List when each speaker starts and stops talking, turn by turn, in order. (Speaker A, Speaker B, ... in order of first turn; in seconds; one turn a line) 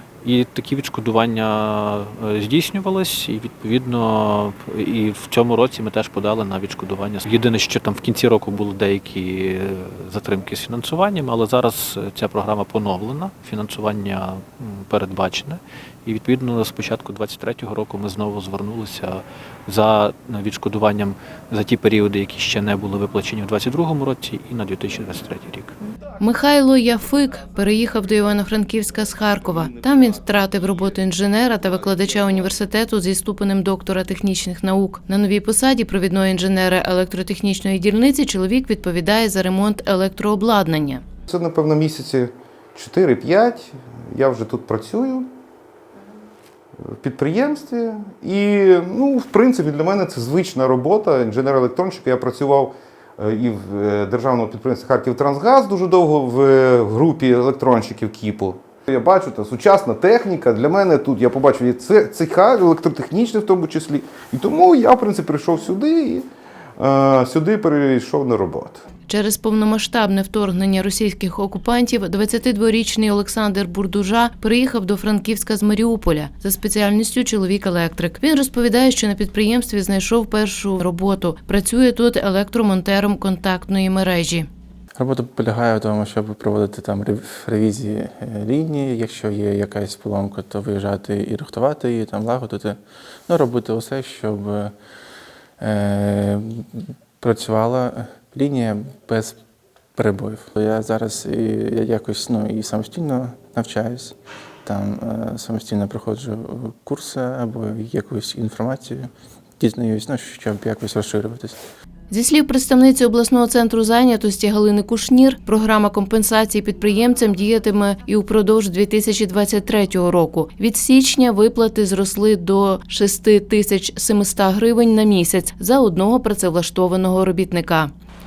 Speaker A: 0.2-25.7
Speaker B: 26.0-41.0
Speaker C: 41.3-45.3
Speaker C: 46.8-66.2
Speaker C: 66.8-68.8
Speaker B: 69.1-84.5
Speaker D: 85.0-94.7
Speaker D: 95.6-99.3
Speaker D: 99.9-111.6
Speaker B: 112.1-127.9